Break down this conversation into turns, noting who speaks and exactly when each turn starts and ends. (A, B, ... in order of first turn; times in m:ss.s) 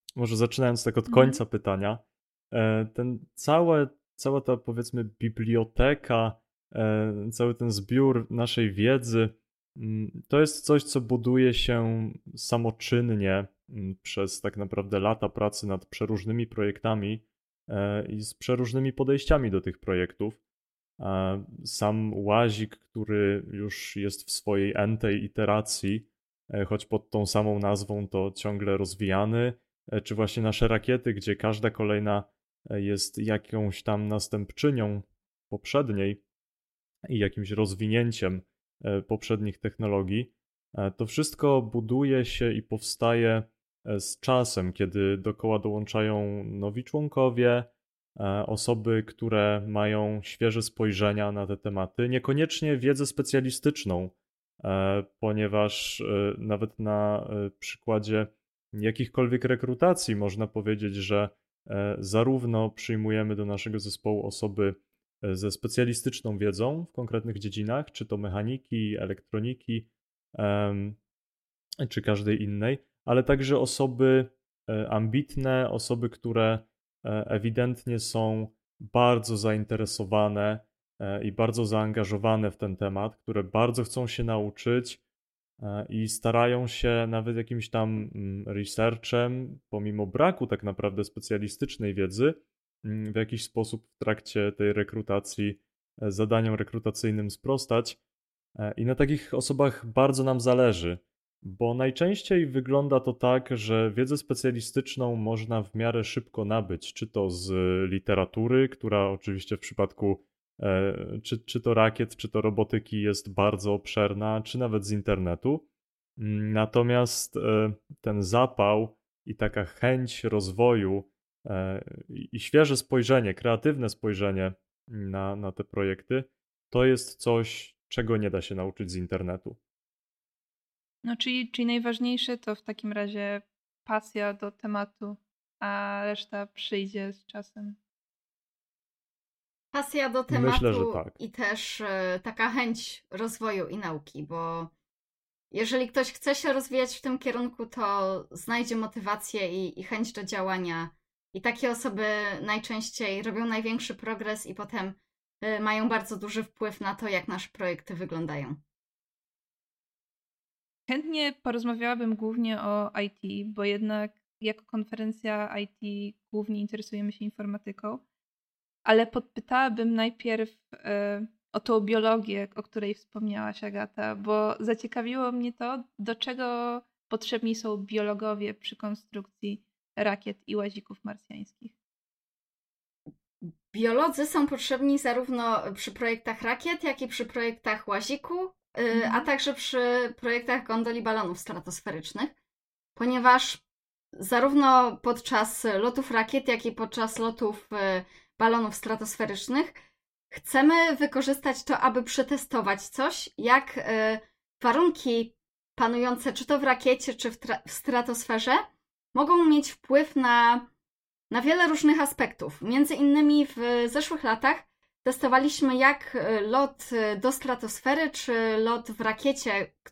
0:00.2-0:20.4 A
0:01.1-0:01.4 B
0:21.0-0:36.2 A
0:37.1-1:11.0 A
1:11.8-1:25.0 A
1:25.6-1:38.0 A
1:38.6-1:55.6 A
1:56.2-2:09.6 A
2:11.0-2:17.8 B
2:19.7-2:24.7 C
2:20.3-2:21.1 A
2:25.5-2:38.6 C
2:40.9-2:48.0 B
2:48.8-3:01.7 B
3:03.4-3:12.3 C
3:08.9-3:09.3 B
3:13.0-3:13.6 C
3:14.2-3:19.8 C
3:20.3-3:30.7 C
3:31.3-3:39.7 C